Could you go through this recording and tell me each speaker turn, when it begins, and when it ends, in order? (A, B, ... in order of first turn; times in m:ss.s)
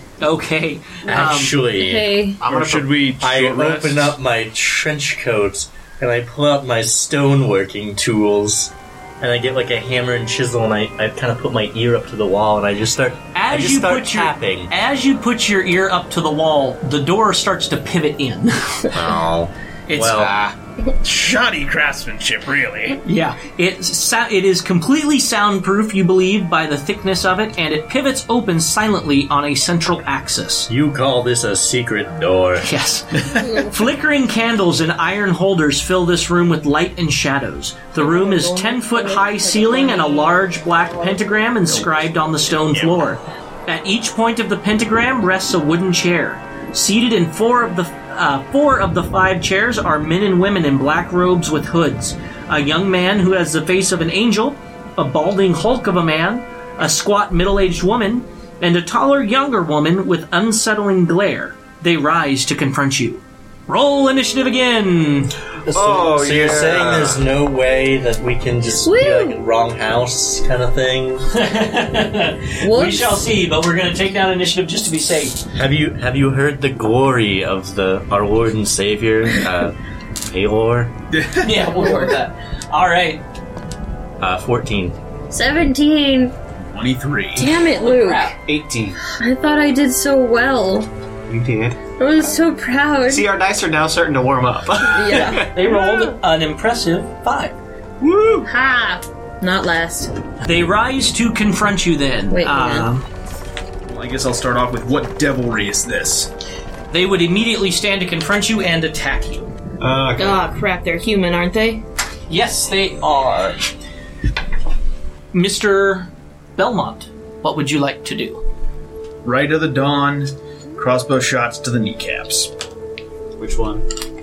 0:00.2-0:01.6 A
0:01.1-0:02.2 B
0:01.1-0:02.4 C
0:02.4-0:03.0 D
0:02.4-0:04.1 E
0:03.2-0:14.7 B
0:13.4-0:18.9 A
0:18.9-0:20.4 B
0:19.9-0:20.3 A
0:21.0-0:23.0 E
0:23.0-0:30.7 A
0:30.7-0:32.7 B
0:32.6-1:05.3 A
0:33.3-0:33.8 C
0:38.0-0:40.4 C
0:40.9-0:41.2 C
0:41.7-0:42.1 E
0:42.7-0:43.1 E
1:05.6-1:11.3 B
1:05.7-1:07.2 D
1:08.8-1:09.4 C
1:11.3-1:15.4 A
1:12.6-1:13.3 C
1:15.5-1:20.9 B
1:21.1-1:22.0 E
1:21.4-1:23.2 A
1:24.2-1:25.0 B
1:25.3-1:26.3 C
1:26.6-1:27.5 E
1:27.4-1:28.3 C
1:27.7-1:28.4 A
1:28.4-1:29.0 D
1:29.2-1:30.9 C
1:31.3-1:31.8 D
1:32.0-1:33.3 C
1:33.1-1:35.8 D
1:34.8-1:35.5 C
1:35.1-1:37.6 A
1:38.0-1:38.5 E
1:38.5-1:40.1 C
1:40.4-1:43.0 A
1:42.3-1:42.9 C
1:43.8-1:46.3 E
1:46.9-1:49.5 A
1:49.8-1:50.4 D
1:50.2-1:51.8 C
1:52.3-1:53.7 A
1:55.3-1:58.4 A
1:59.2-2:02.5 E
2:03.4-2:03.8 D